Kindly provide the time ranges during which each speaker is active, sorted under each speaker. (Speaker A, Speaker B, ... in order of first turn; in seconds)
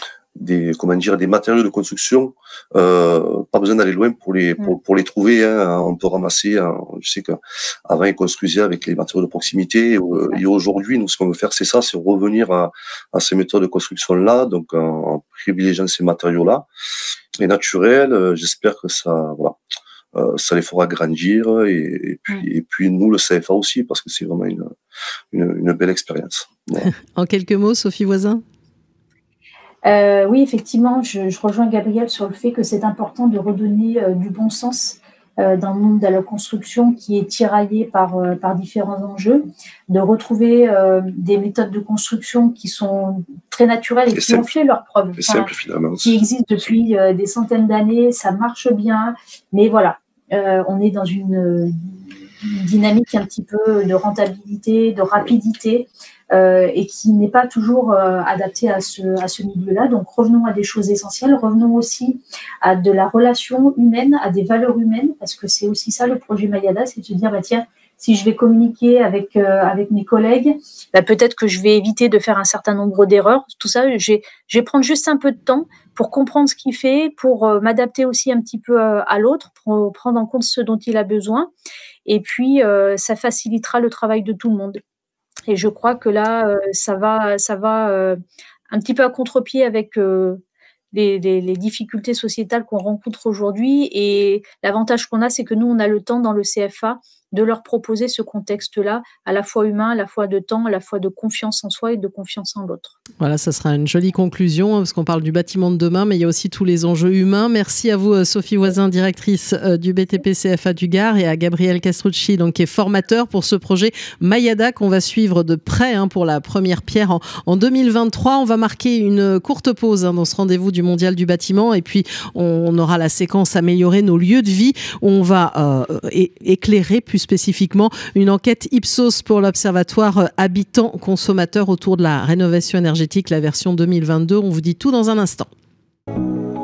Speaker A: 0.4-16.7, 17.4-19.6, 20.1-24.7, 25.3-26.9, 44.1-44.5, 45.2-46.2
Speaker B: 26.8-28.4, 103.2-135.5
Speaker C: 29.9-81.5, 82.1-84.8, 85.5-90.4, 90.9-103.0